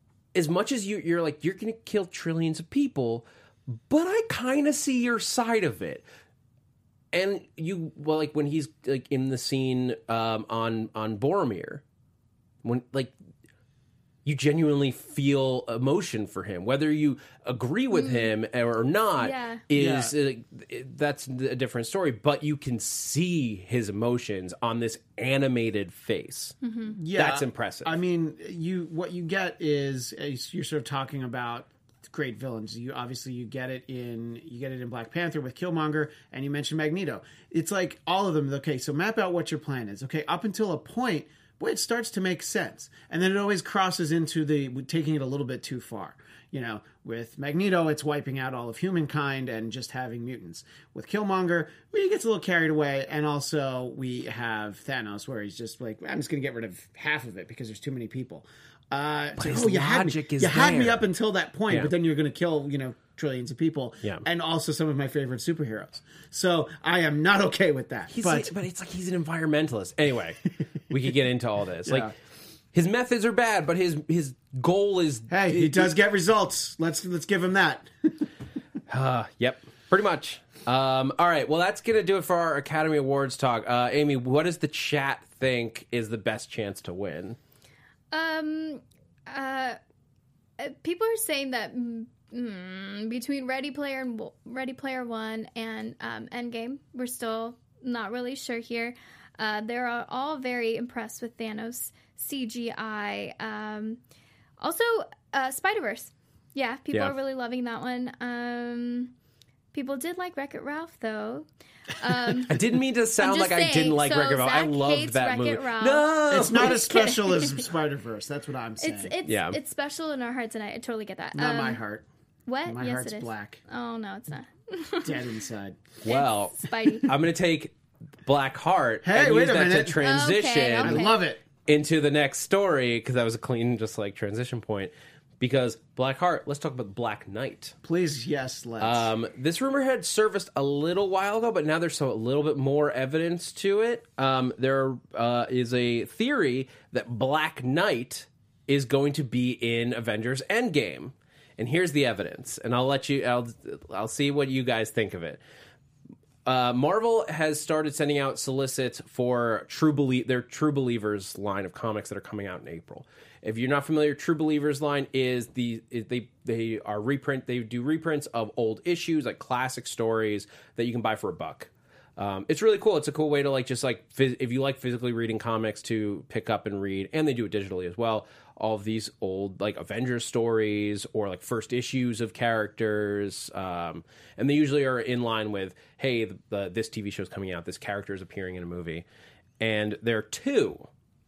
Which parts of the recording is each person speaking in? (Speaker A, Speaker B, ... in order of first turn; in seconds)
Speaker A: 0.3-6.0, 7.1-11.8, 12.6-13.1, 14.2-26.6, 27.1-27.9, 59.4-61.0, 68.1-72.1, 72.7-75.9, 78.9-87.4, 112.5-116.9, 119.2-119.6, 126.0-127.7, 128.2-131.1, 131.7-137.7, 138.8-155.4, 156.4-189.1, 189.6-190.9
Speaker B: 17.9-18.3, 19.2-19.6, 26.6-26.9, 88.1-89.8, 90.6-104.0, 104.6-109.1, 109.7-112.5, 113.2-116.1, 116.6-117.5, 118.8-121.8, 122.5-125.2, 126.1-127.1, 130.0-131.2
Speaker C: 19.7-20.1, 26.9-68.5, 71.8-72.1, 75.3-78.3, 116.3-119.1, 121.3-122.1, 122.6-123.6, 125.0-125.9, 129.0-130.0, 130.8-131.4, 137.8-139.1